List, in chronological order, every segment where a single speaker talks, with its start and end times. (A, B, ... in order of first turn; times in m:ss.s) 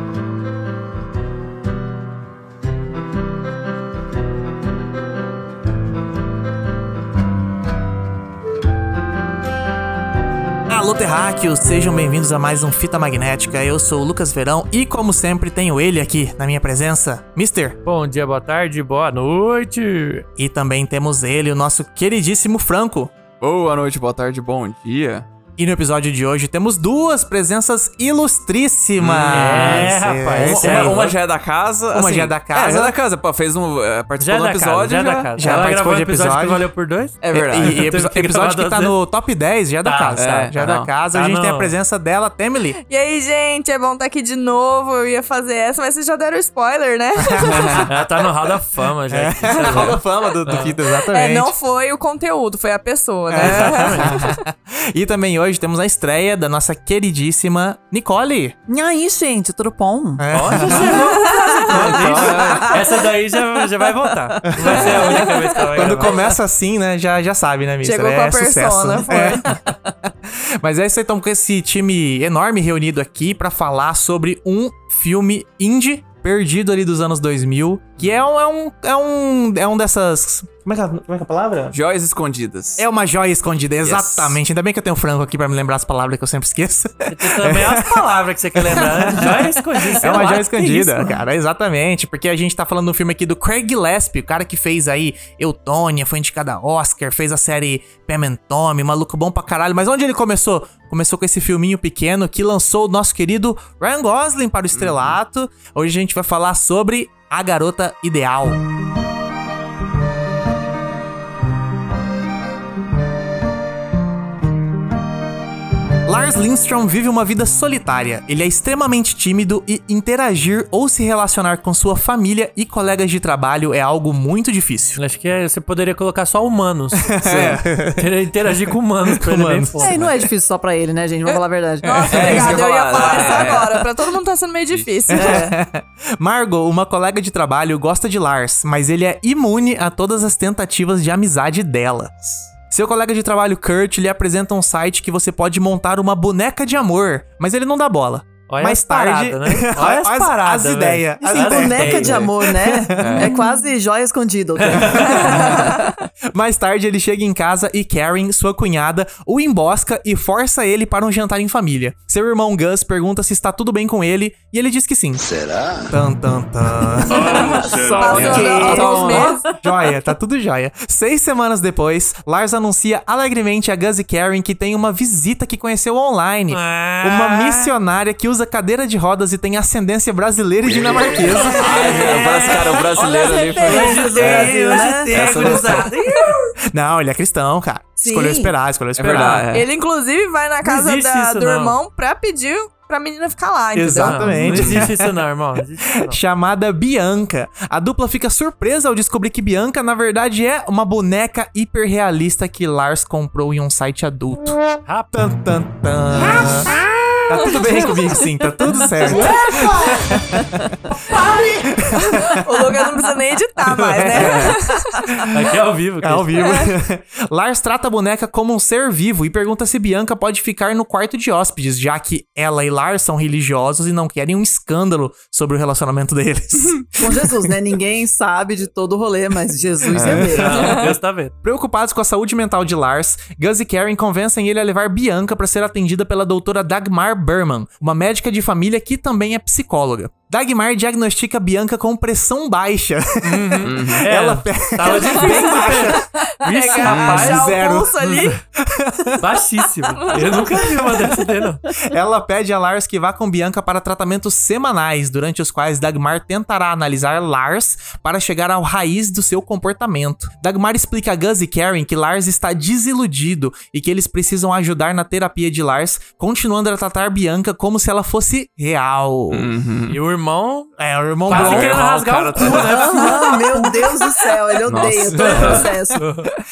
0:10.7-0:17.8 A
0:17.8-0:20.3 B
0:20.4-0:23.1 A
0:23.4-0:25.3 C
0:25.6-0:31.0 A
0:29.0-0:35.6 C
0:29.3-0:31.2 B
0:31.9-0:33.0 A
0:34.2-0:39.0 B
0:35.4-0:36.7 A
0:37.2-0:37.9 C
0:37.3-0:42.8 A
0:39.8-0:40.5 B
0:40.2-0:40.9 C
0:41.1-0:41.7 B
0:42.8-0:47.8 D
0:47.4-0:47.8 A
0:47.5-0:47.9 C
0:47.9-0:50.7 B
0:49.1-0:51.5 A
0:51.1-0:54.3 D
0:53.3-0:58.6 A
0:53.4-0:54.2 B
0:58.7-1:02.8 E
1:00.2-1:01.0 A
1:00.3-1:06.2 B
1:01.2-1:01.7 D
1:02.0-1:02.8 C
1:04.4-1:04.8 E
1:04.5-1:21.8 A
1:07.8-1:09.6 D
1:21.7-1:22.8 C
1:22.8-1:48.6 A
1:23.8-1:24.4 C
1:27.1-1:31.2 B
1:44.7-1:45.2 C
1:56.0-2:05.0 A
2:05.0-2:07.2 B
2:07.0-2:10.1 A
2:07.2-2:07.6 C
2:08.0-2:10.1 B
2:09.8-2:12.6 E
2:11.8-2:15.4 D
2:12.0-2:12.5 A
2:12.1-2:13.9 C
2:15.1-2:33.2 A
2:15.1-2:15.6 E
2:28.5-2:32.3 B
2:31.2-2:35.7 E
2:33.0-2:33.3 C
2:34.6-2:35.1 B
2:34.8-2:35.7 A
2:35.2-2:35.8 D
2:36.3-2:45.3 A
2:45.9-2:47.4 A
2:47.1-2:49.5 D
2:47.2-2:49.4 E
2:48.1-2:49.4 C
2:49.6-3:02.3 A
2:56.5-2:57.7 B
3:00.7-3:05.9 C
3:01.7-3:02.8 B
3:01.7-3:05.7 E
3:03.6-3:06.4 B
3:06.7-3:09.5 A
3:08.0-3:08.5 E
3:09.0-3:09.7 C
3:09.5-3:14.6 D
3:10.6-3:11.8 B
3:13.7-3:15.1 A
3:14.0-3:16.2 B
3:14.5-3:14.8 C
3:16.0-3:26.8 A
3:24.9-3:25.2 B
3:27.3-3:32.6 A
3:29.2-3:30.5 E
3:32.0-3:35.3 D
3:33.9-3:35.3 A
3:34.2-3:34.4 C
3:35.3-3:36.6 B
3:36.0-3:47.5 A
3:36.4-3:36.7 D
3:47.0-3:50.8 E
3:49.9-3:50.8 A
3:50.0-3:51.3 B
3:51.4-4:06.1 A
4:03.2-4:07.5 B
4:03.6-4:04.0 C
4:05.1-4:08.4 D
4:06.8-4:07.4 C
4:07.0-4:09.2 A
4:08.0-4:08.4 B
4:09.2-4:11.6 B
4:10.0-4:10.4 D
4:11.8-4:29.5 A
4:29.3-4:30.0 C
4:29.9-4:30.7 B
4:30.8-4:33.0 A
4:31.3-4:33.8 B
4:31.3-4:32.6 C
4:32.5-4:36.0 E
4:34.6-4:35.6 C
4:35.2-4:36.3 B